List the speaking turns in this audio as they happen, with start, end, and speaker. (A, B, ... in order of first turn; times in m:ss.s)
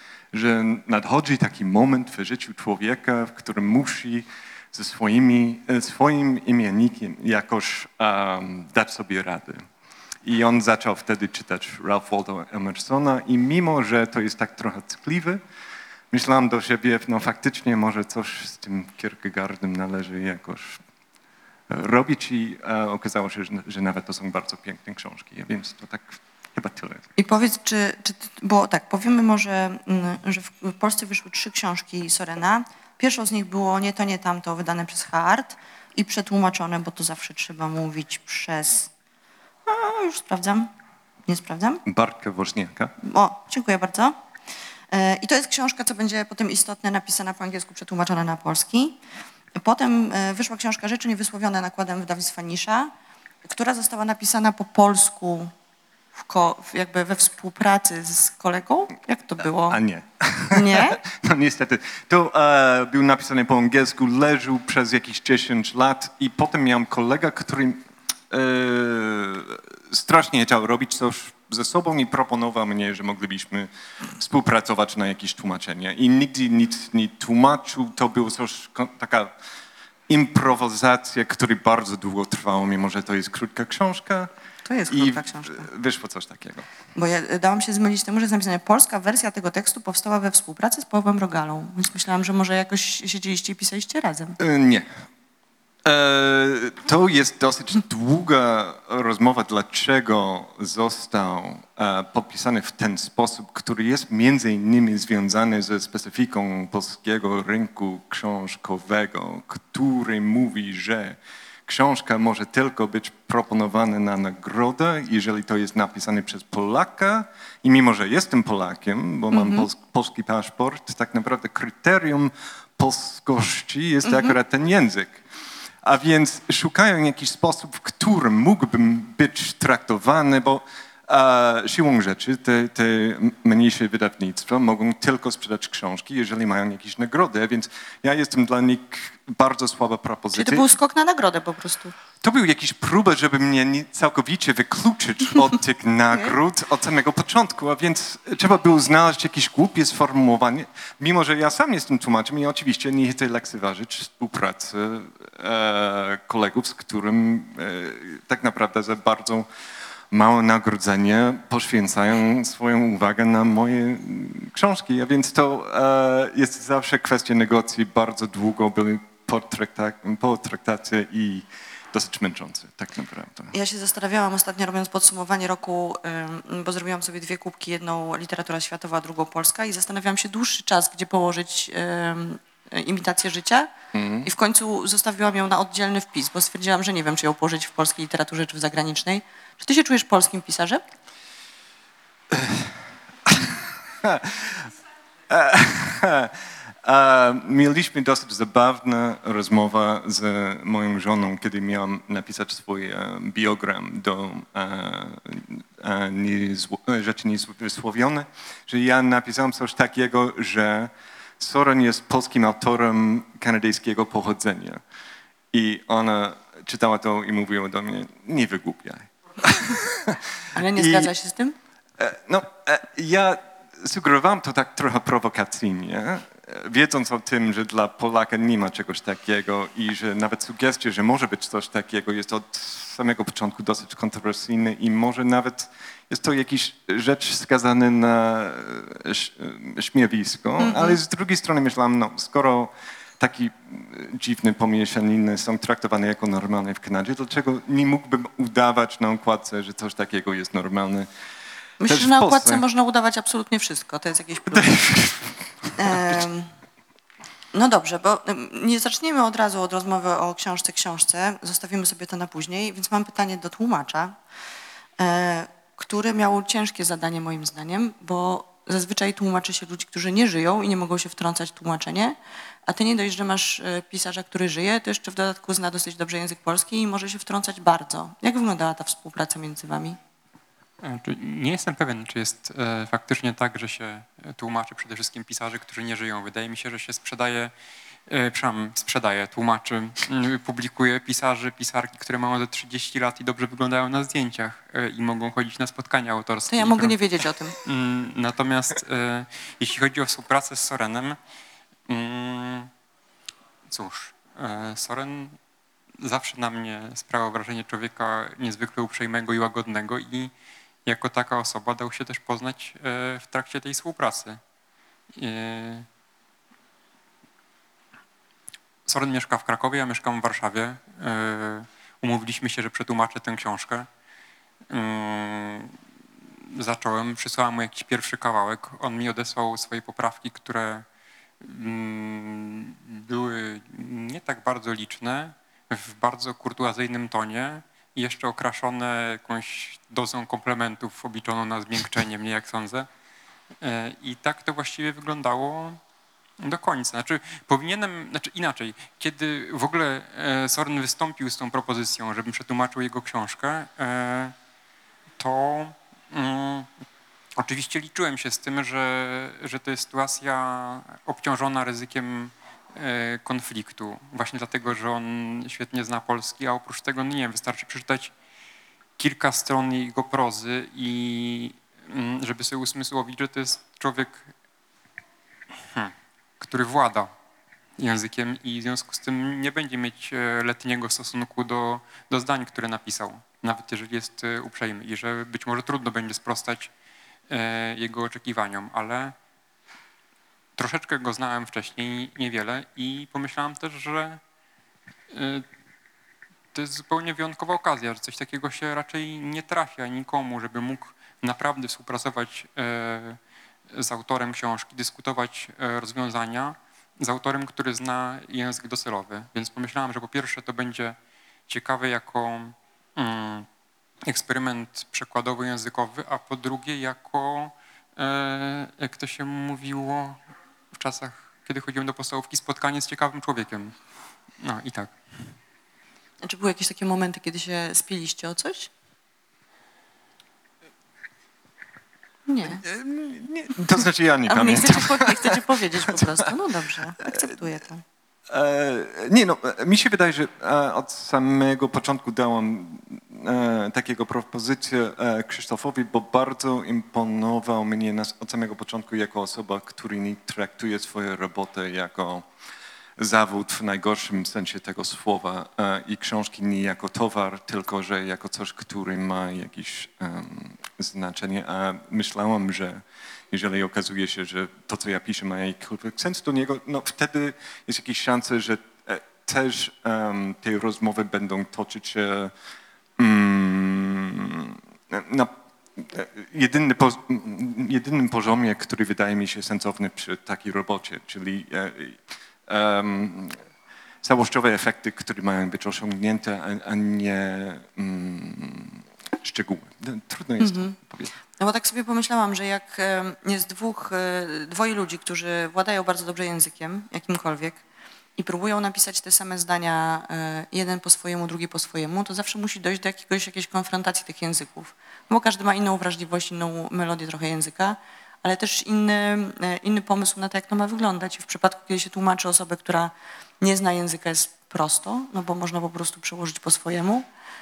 0:00.3-0:09.6 A
0:10.2-0:15.4 A
0:16.1-0:20.8 A
0:21.7-0:27.0 A
0:27.2-0:38.9 B
0:39.7-0:40.7 B
0:41.3-0:41.8 B
0:41.9-0:42.9 A
0:43.0-0:44.2 B
0:44.9-0:49.0 B
0:49.6-0:52.9 B
0:53.4-0:55.5 B
0:56.2-0:59.8 B
0:59.7-1:19.4 A
1:00.5-1:01.0 B
1:20.1-1:24.3 A
1:24.6-1:25.7 B
1:24.9-1:26.7 A
1:27.0-1:34.4 B
1:34.4-1:34.9 A
1:35.8-2:05.2 A
1:59.3-1:59.7 B
2:04.1-2:04.4 B
2:05.8-2:20.7 A
2:20.4-2:22.0 B
2:22.2-2:39.5 A
2:40.1-2:53.5 A
2:53.5-3:03.7 B
3:03.9-3:04.3 A
3:04.2-3:10.8 B
3:12.3-3:14.7 A
3:15.3-3:34.8 A
3:35.5-3:41.1 A
3:40.5-3:41.6 B
3:42.0-4:11.1 A
4:00.6-4:01.0 B
4:11.8-4:14.8 B
4:11.9-4:12.6 A
4:14.5-4:16.2 A
4:15.8-4:16.5 B
4:17.5-4:24.2 B
4:25.0-4:40.0 B
4:40.8-4:47.5 C
4:48.1-4:57.0 C
4:56.5-4:57.6 B
4:57.6-5:01.2 C
5:01.9-5:02.7 C
5:03.7-5:05.4 C
5:06.0-5:10.3 C
5:10.8-5:14.4 C
5:15.1-5:15.9 C
5:18.9-5:23.9 C
5:24.7-5:25.8 C
5:26.4-5:30.9 C
5:31.4-5:42.9 C
5:43.6-5:45.8 C
5:46.4-5:54.3 C
5:55.2-5:56.7 C
5:57.4-6:08.1 C
6:09.0-6:14.3 C
6:15.7-6:17.1 C
6:17.8-6:26.7 C
6:27.3-6:29.2 C
6:30.6-6:34.2 C
6:35.1-6:35.5 C
6:36.5-6:43.2 C
6:43.7-6:51.0 C
6:51.5-6:53.5 C
6:54.1-7:00.2 C
7:00.7-7:03.8 C
7:04.4-7:05.4 C
7:06.2-7:08.7 B
7:12.3-7:12.6 B
7:12.6-7:15.4 A
7:14.3-7:17.8 B
7:18.3-7:32.3 A
7:33.0-7:52.3 A
7:53.0-8:03.4 A
8:04.0-8:11.1 A
8:10.4-8:10.8 B
8:11.4-8:17.6 B
8:18.2-8:37.1 B